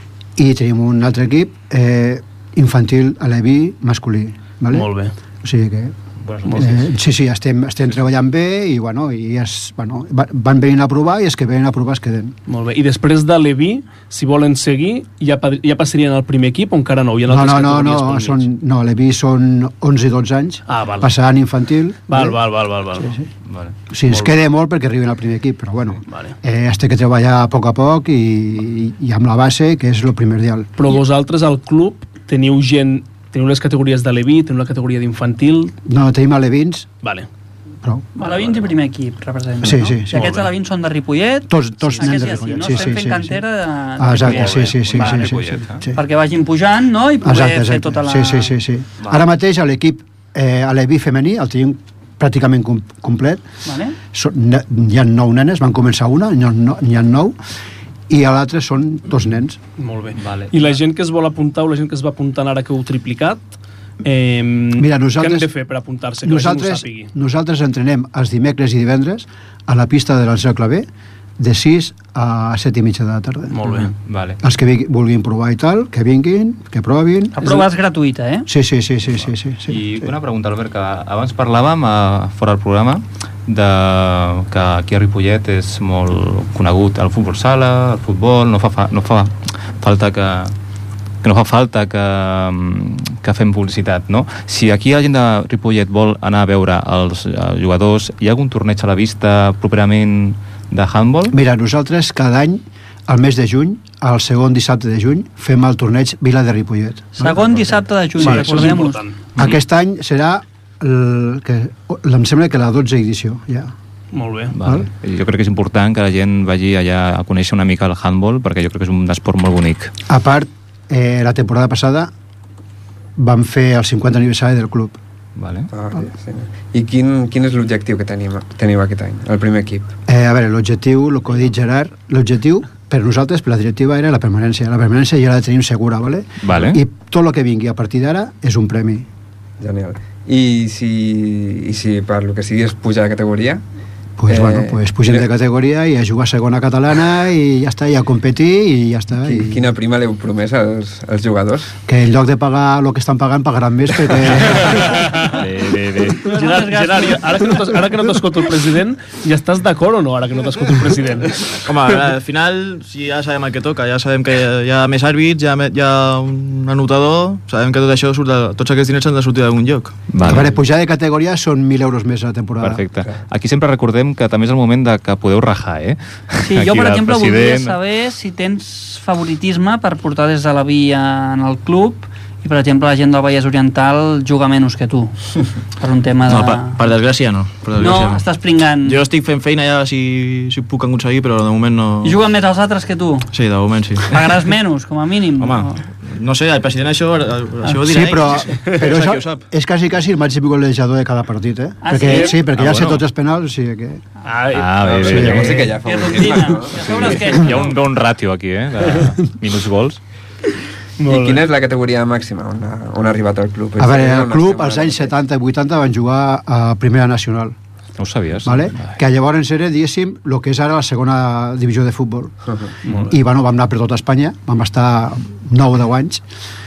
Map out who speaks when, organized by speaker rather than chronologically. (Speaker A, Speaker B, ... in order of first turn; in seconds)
Speaker A: 0.4-4.9, 5.4-5.9, 6.5-12.3, 17.3-22.4, 22.9-23.3, 23.9-30.7, 35.9-36.9, 37.8-38.1, 39.6-40.3, 41.5-43.4, 44.0-46.0, 47.2-53.5, 54.1-57.4, 58.1-59.6, 64.8-65.5, 66.2-70.9, 71.4-73.6, 74.4-77.6, 78.5-80.1, 101.3-107.6, 108.2-108.7, 109.4-113.7, 114.6-114.9, 120.1-122.1, 123.2-125.0, 130.1-139.1, 144.2-149.6, 151.9-155.0, 170.2-172.8, 197.9-204.0, 205.1-205.6, 213.8-217.5, 218.4-222.3, 223.0-226.2
Speaker B: 4.7-5.1, 6.4-6.8, 12.5-18.4, 20.7-21.1, 22.1-23.1, 26.1-26.4, 30.8-35.7, 37.0-37.3, 42.0-42.5, 59.8-67.1, 73.5-73.9, 108.2-109.2, 114.1-114.5, 156.2-161.6, 202.1-202.3, 204.2-204.9, 211.0-211.4, 222.8-223.2
Speaker C: 6.3-6.7, 23.5-23.7, 44.2-45.8, 60.2-60.5, 74.0-74.4, 79.7-90.5, 91.2-101.3, 114.5-119.9, 125.4-125.7, 136.4-136.8, 155.2-156.2, 170.1-170.5, 172.6-177.8, 204.5-205.7, 206.8-210.0, 218.0-219.0
Speaker D: 38.1-45.3, 45.9-48.5, 53.6-54.0, 77.3-78.5, 107.1-109.0, 156.2-157.7, 176.4-185.1, 185.8-186.8, 187.7-189.0, 192.0-193.3, 194.0-195.8, 201.8-202.5, 205.8-207.8
Speaker E: 125.7-129.9, 139.6-143.6, 144.3-145.3, 149.2-151.7, 204.8-207.2, 211.1-215.1, 222.4-222.7
Speaker F: 161.6-170.1, 186.3-188.2, 188.8-192.2, 193.3-194.4, 195.4-199.5, 202.6-203.0